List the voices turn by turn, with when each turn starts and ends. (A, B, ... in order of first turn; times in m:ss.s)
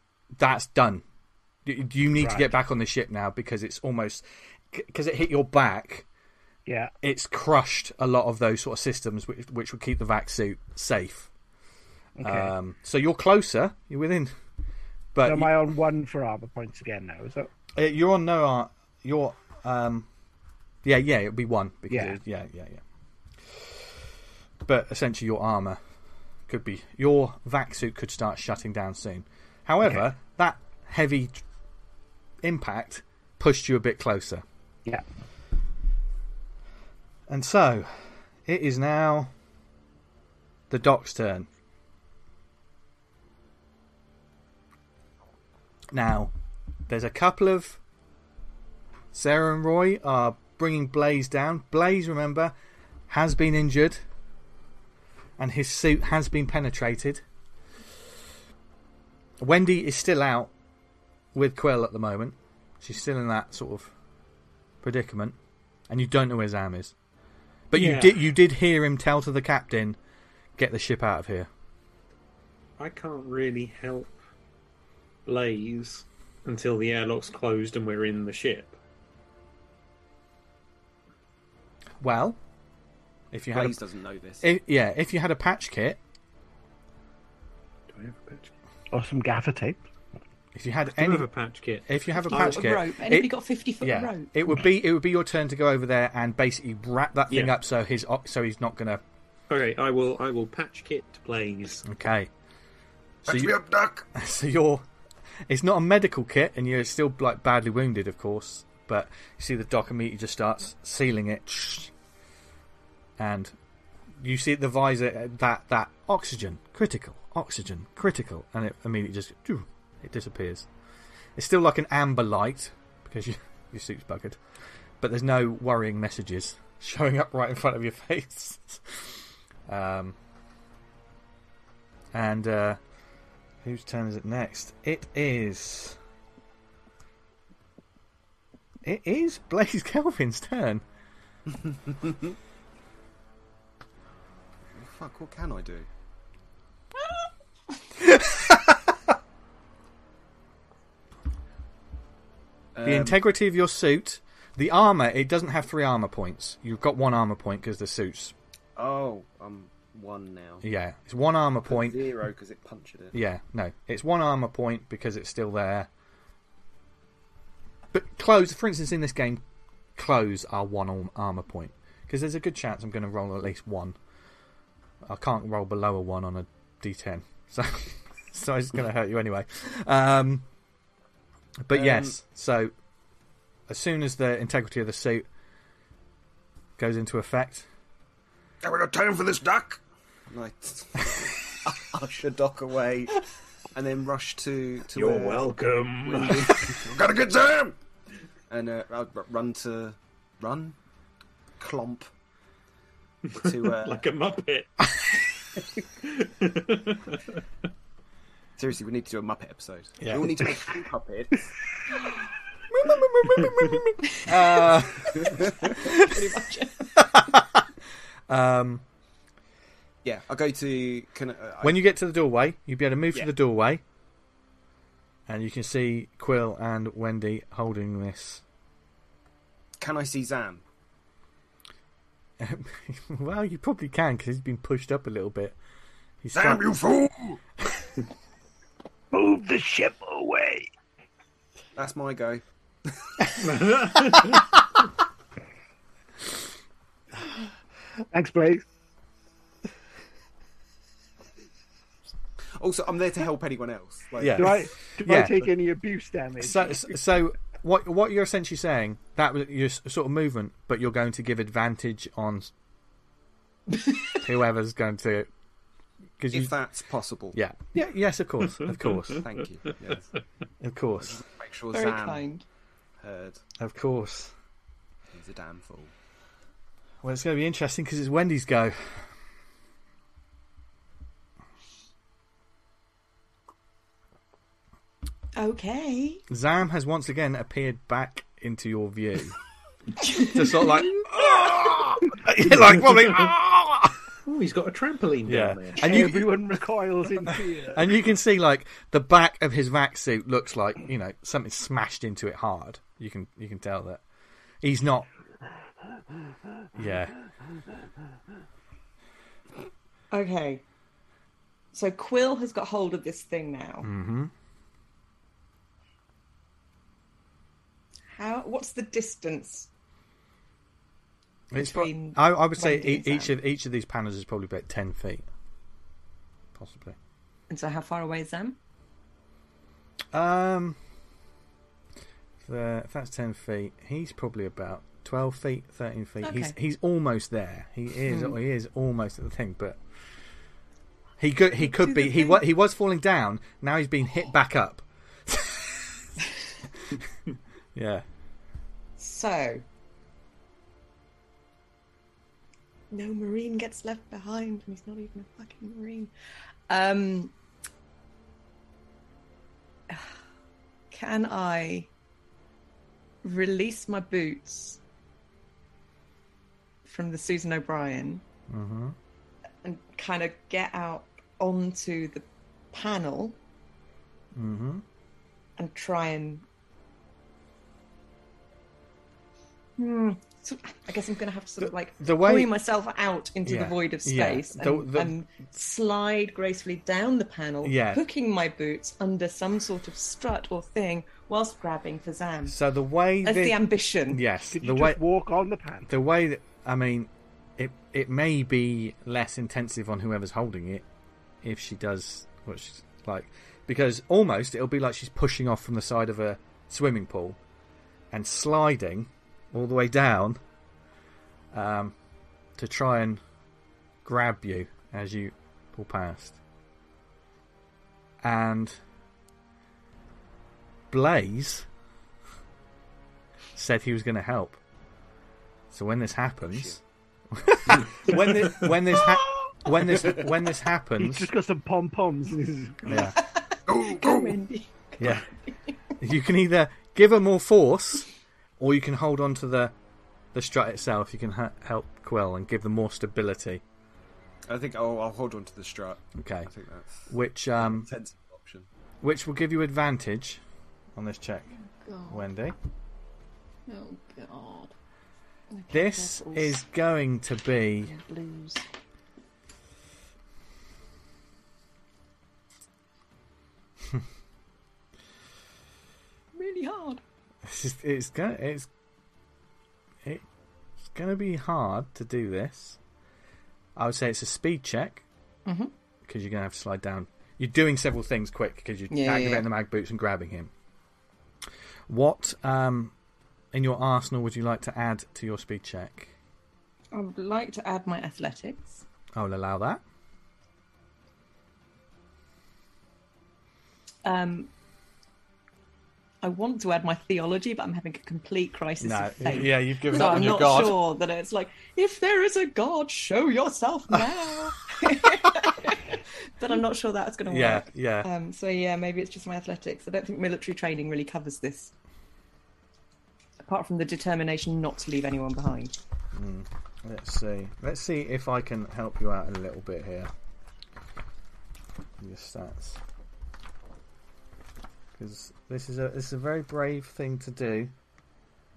0:00.4-0:01.0 A
0:01.6-0:06.0 A
0:02.2-0:02.5 B
0:06.6-0:06.9 B
0:07.0-0:11.3 A
0:12.2-0:12.5 B
0:12.2-0:14.3 A
0:15.1-0:15.6 A
0:15.2-0:17.5 B
0:17.7-0:20.1 A
0:20.8-0:22.8 A
0:21.9-0:22.2 B
0:23.4-0:24.0 A
0:24.6-0:25.8 A
0:26.5-0:31.4 A
0:32.4-0:34.4 A
0:37.3-0:39.3 A
0:40.7-0:41.5 A
0:45.9-0:46.3 A
0:46.9-0:47.8 A
0:49.1-0:52.5 A
0:53.1-0:54.0 A
0:55.4-0:57.2 A
0:59.4-1:00.5 A
1:01.3-1:03.9 A
1:04.8-1:05.4 A
1:05.9-1:06.9 A
1:07.7-1:10.0 A
1:07.7-1:08.2 C
1:10.6-1:11.5 A
1:12.8-1:14.1 C
1:15.2-1:18.7 C
1:22.0-1:22.4 A
1:23.3-1:23.8 A
1:23.5-1:24.4 D
1:24.4-1:26.0 A
1:27.9-1:28.5 C
1:28.9-1:29.8 B
1:30.5-1:31.3 A
1:30.9-1:32.6 C
1:31.9-1:39.0 A
1:32.3-1:34.3 E
1:37.3-1:37.5 C
1:39.5-1:41.8 C
1:41.8-1:42.3 A
1:43.2-1:43.6 A
1:43.2-1:44.1 F
1:44.1-1:44.8 A
1:45.5-1:51.9 A
1:53.2-1:53.5 A
1:54.2-2:00.7 A
2:01.4-2:04.4 A
2:05.0-2:10.2 A
2:12.1-2:12.8 A
2:13.6-2:16.0 A
2:18.8-2:20.8 A
2:21.5-2:22.4 D
2:24.7-2:25.9 D
2:28.0-2:28.9 A
2:32.7-2:33.2 D
2:32.8-2:38.3 A
2:38.8-2:40.6 D
2:40.6-2:42.0 A
2:41.7-2:43.2 D
2:43.1-2:45.9 A
2:47.9-2:49.4 A
2:50.0-2:54.0 A
2:55.0-3:00.4 A
3:01.6-3:02.7 A
3:01.7-3:02.2 D
3:03.7-3:05.2 A
3:06.8-3:07.7 A
3:08.6-3:09.8 F
3:10.3-3:13.2 D
3:13.7-3:16.8 D
3:14.9-3:16.8 C
3:16.8-3:17.7 F
3:18.5-3:20.8 D
3:21.6-3:22.1 D
3:23.3-3:24.0 D
3:23.6-3:24.8 C
3:26.0-3:27.4 C
3:28.6-3:31.5 D
3:30.0-3:30.6 A
3:32.7-3:35.9 A
3:33.4-3:33.8 C
3:35.1-3:35.8 D
3:35.8-3:36.8 E
3:36.9-3:37.7 A
3:38.3-3:38.8 A
3:40.0-3:41.8 D
3:41.6-3:43.8 A
3:45.3-3:48.4 A
3:49.8-3:50.6 D
3:52.4-3:55.6 A
3:56.2-3:56.6 A
3:56.3-3:57.4 F
3:59.1-4:00.7 B
4:01.8-4:03.4 D
4:03.4-4:04.5 C
4:08.1-4:08.6 B
4:12.5-4:14.6 D
4:14.2-4:15.5 A
4:14.3-4:16.9 B
4:16.4-4:22.5 A
4:24.2-4:25.3 A
4:26.2-4:26.5 A
4:26.3-4:27.4 D
4:27.3-4:29.2 A
4:29.2-4:30.1 D
4:30.6-4:31.2 A
4:31.0-4:32.3 D
4:31.7-4:32.4 E
4:33.0-4:33.4 D
4:33.6-4:34.3 A
4:35.1-4:35.9 D
4:37.0-4:39.1 A
4:45.4-4:46.2 E
4:46.3-4:49.4 A
4:50.0-4:51.7 E
4:50.2-4:54.0 A
4:54.2-4:56.2 C
4:55.2-4:56.3 A
4:55.8-4:57.9 B
4:57.3-5:04.0 A
5:04.6-5:05.1 A
5:06.7-5:07.2 A
5:10.1-5:10.6 E
5:11.7-5:13.9 E
5:13.8-5:14.3 A
5:18.1-5:19.7 E
5:21.5-5:25.3 A
5:21.6-5:23.3 E
5:26.5-5:27.0 A
5:27.5-5:28.6 E
5:30.1-5:30.8 A
5:32.4-5:39.8 A
5:36.2-5:36.6 E
5:38.1-5:38.3 E
5:41.2-5:46.1 A
5:41.6-5:42.4 E
5:47.7-5:48.0 A
5:49.0-5:49.6 E
5:52.9-5:56.1 E
5:56.7-5:57.3 E
5:59.9-6:00.2 E
6:00.9-6:01.9 E
6:03.2-6:04.8 E
6:06.8-6:08.2 E
6:08.5-6:09.0 A
6:09.6-6:13.4 E
6:14.3-6:14.8 A
6:15.6-6:16.4 E
6:19.8-6:32.6 E
6:21.6-6:22.5 A
6:23.4-6:25.1 A
6:27.6-6:28.0 A
6:32.5-6:35.0 A
6:33.2-6:34.2 E
6:34.5-6:35.9 B
6:35.9-6:40.8 A
6:41.4-6:47.4 A
6:48.1-6:50.4 A
6:51.5-6:52.0 A
6:52.6-6:53.2 A
6:54.0-6:56.4 A
6:58.2-6:58.8 A
7:00.9-7:01.7 A
7:03.6-7:04.6 A
7:05.7-7:06.8 A
7:06.4-7:06.8 D
7:07.3-7:11.3 A
7:08.1-7:08.7 C
7:09.0-7:09.9 E
7:11.0-7:12.9 B
7:12.8-7:13.2 A
7:12.9-7:15.6 E
7:13.7-7:14.4 F
7:15.0-7:15.2 A
7:16.0-7:18.1 A
7:18.6-7:19.7 A
7:20.3-7:23.6 A
7:24.5-7:28.7 D
7:26.2-7:26.5 A
7:27.1-7:27.9 A
7:29.0-7:30.4 A
7:30.9-7:31.5 A
7:31.5-7:32.2 E
7:32.1-7:32.6 A
7:33.7-7:34.7 E
7:35.5-7:36.6 E
7:35.7-7:37.9 A
7:37.8-7:38.6 E
7:46.3-7:47.0 E
7:47.4-7:48.7 A
7:50.8-7:52.8 A
7:53.8-7:55.0 A
7:55.4-7:55.7 E
7:56.0-8:00.5 A
7:58.9-7:59.4 E
8:01.9-8:02.9 A
8:03.5-8:06.1 A
8:06.9-8:08.8 E
8:09.2-8:09.8 A
8:14.0-8:14.5 E
8:16.2-8:31.7 E
8:18.8-8:20.8 A
8:27.2-8:28.1 A
8:33.4-8:35.7 E
8:36.1-8:40.1 A
8:42.0-8:42.8 A
8:45.0-8:47.7 A